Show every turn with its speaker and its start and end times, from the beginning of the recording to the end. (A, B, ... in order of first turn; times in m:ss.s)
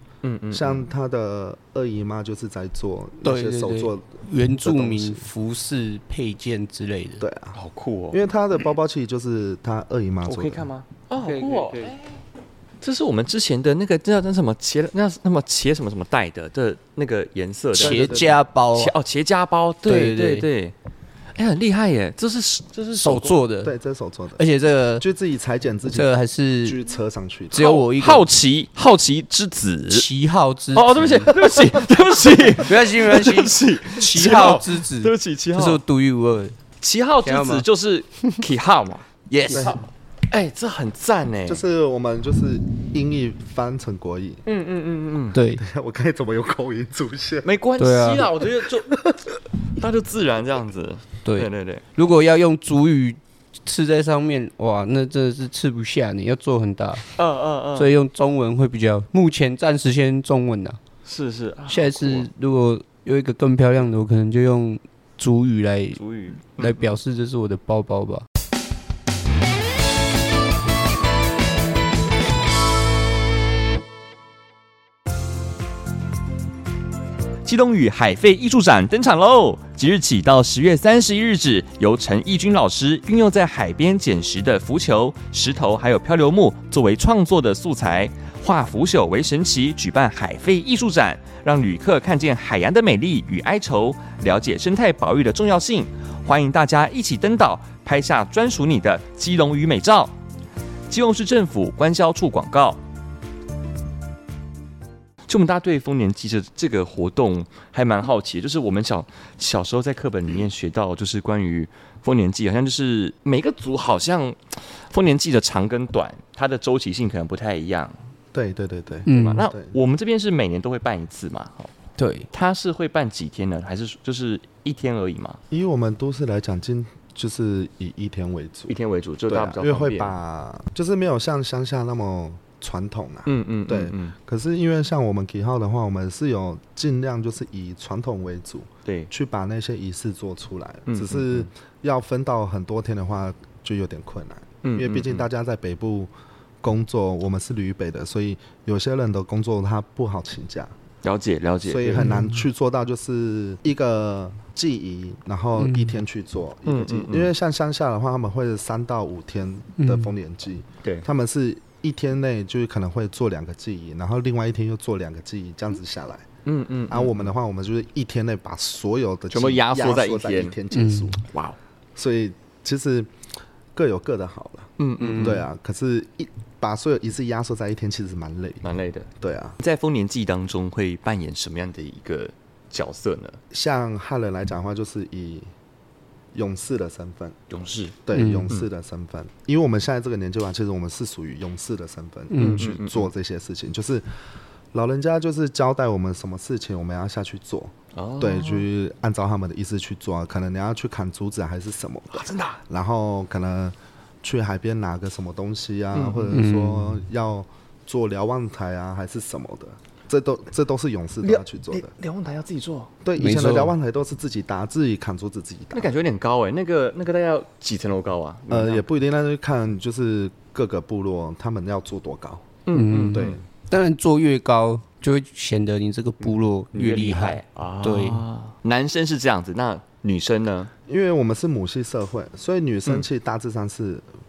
0:00.2-0:00.9 A
0:00.5-0:05.3 B
0:03.2-0:07.2 C
0:07.2-0:07.6 B
0:07.5-0:08.2 A
0:08.1-0:10.7 B
0:10.2-0:12.2 A
0:11.2-0:11.9 C
0:12.8-0:20.7 A
0:17.8-0:18.4 B
0:17.8-0:18.9 C
0:19.9-0:20.5 C
0:21.4-0:23.4 A
0:23.0-0:23.7 C
0:23.6-0:24.4 B
0:24.4-0:25.1 C
0:25.0-0:26.1 B
0:25.9-0:26.8 C
0:26.6-0:27.7 B
0:27.5-0:28.2 C
0:27.5-0:30.1 A
0:29.9-0:31.3 C
0:30.7-0:35.8 A
0:32.6-0:36.6 C
0:36.8-0:41.6 A
0:37.2-0:37.6 C
0:39.3-0:39.7 C
0:39.5-0:39.8 B
0:41.5-0:44.4 B
0:44.5-0:45.4 A
0:45.3-0:45.6 C
0:45.6-0:47.5 B
0:47.4-0:49.1 A
0:47.8-0:48.3 C
0:49.7-0:51.8 A
0:51.2-0:57.1 C
0:57.1-0:57.9 A
0:57.8-1:00.8 C
1:01.0-1:02.3 A
1:01.7-1:06.0 C
1:06.0-1:07.0 A
1:06.6-1:08.2 C
1:17.4-1:40.1 A
1:40.9-1:42.8 A
1:45.3-1:58.0 A
1:58.3-1:59.8 B
1:59.1-1:59.5 C
1:59.1-2:01.7 A
2:02.0-2:02.3 C
2:02.3-2:05.4 A
2:05.5-2:08.8 B
2:08.7-2:10.2 A
2:09.3-2:26.1 B
2:13.3-2:14.2 A
2:20.9-2:21.5 A
2:24.6-2:25.3 A
2:26.6-2:30.7 B
2:31.0-2:32.1 A
2:31.7-2:46.3 B
2:32.0-2:32.4 C
2:35.6-2:36.0 C
2:36.7-2:37.3 A
2:39.8-2:40.1 C
2:46.4-2:47.3 A
2:46.9-2:51.2 B
2:49.3-2:50.6 A
2:50.7-2:51.2 C
2:51.3-2:51.6 A
2:52.0-2:53.1 B
2:53.7-2:59.6 B
2:54.8-2:55.4 A
2:55.0-2:55.4 C
2:58.6-3:03.4 A
3:03.5-3:05.5 B
3:06.3-3:07.4 B
3:07.5-3:08.7 A
3:08.1-3:14.0 B
3:08.1-3:08.5 C
3:12.3-3:12.6 C
3:12.4-3:13.1 A
3:14.7-3:31.9 B
3:18.0-3:18.7 A
3:22.1-3:22.6 A
3:25.9-3:26.4 A
3:26.3-3:27.0 C
3:31.2-3:32.9 A
3:33.0-3:35.9 B
3:33.2-3:33.7 C
3:35.7-3:38.9 A
3:38.5-3:42.6 B
3:42.7-3:43.4 A
3:42.7-3:48.2 C
3:43.1-3:43.4 B
3:46.7-3:50.7 A
3:50.9-3:54.1 B